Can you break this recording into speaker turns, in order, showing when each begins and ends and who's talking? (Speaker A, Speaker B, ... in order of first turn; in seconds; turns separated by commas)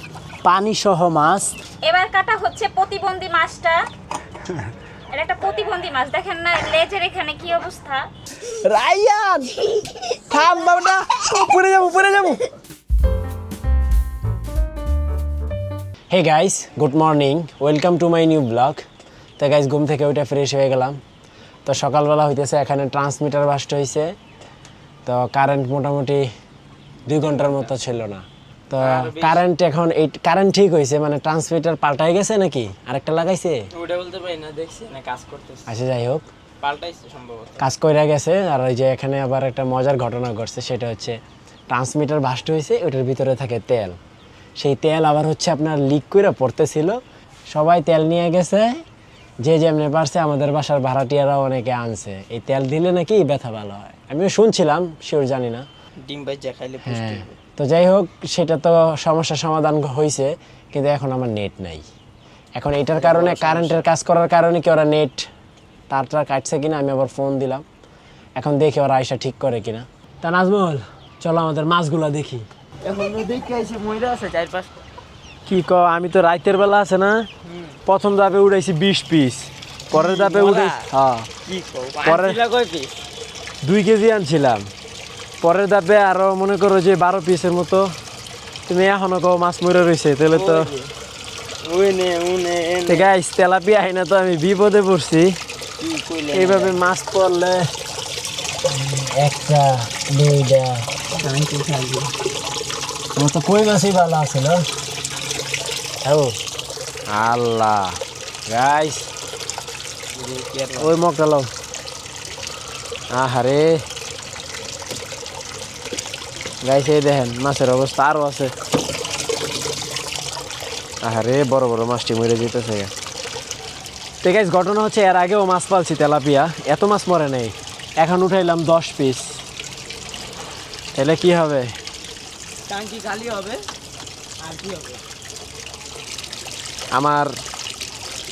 Speaker A: 0.4-1.5, Speaker B: 1.8-3.8, Speaker B: 5.1-8.0, Speaker A: 8.5-9.5, Speaker A: 10.1-12.5, Speaker A: 16.1-18.8, Speaker A: 19.4-21.0, Speaker A: 21.6-24.1, Speaker A: 25.1-26.3, Speaker A: 27.1-33.6, Speaker C: 27.1-27.6, Speaker C: 28.8-29.4, Speaker C: 33.7-35.6, Speaker A: 35.6-36.2, Speaker C: 36.6-37.6, Speaker A: 37.6-41.2, Speaker A: 41.7-44.0, Speaker A: 44.6-47.0, Speaker A: 47.5-48.8, Speaker A: 49.4-55.6, Speaker C: 56.0-57.4, Speaker A: 56.8-61.8, Speaker A: 62.5-65.3, Speaker C: 62.9-63.8, Speaker A: 65.9-67.6, Speaker A: 68.3-72.4, Speaker C: 72.8-74.7, Speaker A: 75.5-77.3, Speaker A: 77.8-81.3, Speaker C: 79.9-80.9, Speaker C: 81.5-83.0, Speaker A: 82.0-82.4, Speaker A: 83.6-84.7, Speaker A: 85.4-87.9, Speaker A: 88.7-90.7, Speaker C: 90.3-90.9, Speaker C: 91.6-93.1, Speaker A: 92.8-95.3, Speaker C: 95.8-96.8, Speaker A: 96.3-97.6, Speaker A: 98.7-100.9, Speaker C: 101.1-102.1, Speaker A: 103.1-104.6, Speaker A: 106.0-106.3, Speaker A: 107.1-109.1, Speaker C: 110.1-110.9, Speaker A: 110.8-111.5, Speaker A: 113.1-113.8, Speaker A: 116.6-118.5, Speaker A: 121.0-122.9, Speaker A: 124.2-129.4, Speaker A: 130.9-131.7, Speaker C: 132.7-133.6, Speaker C: 134.4-135.0, Speaker A: 136.9-137.3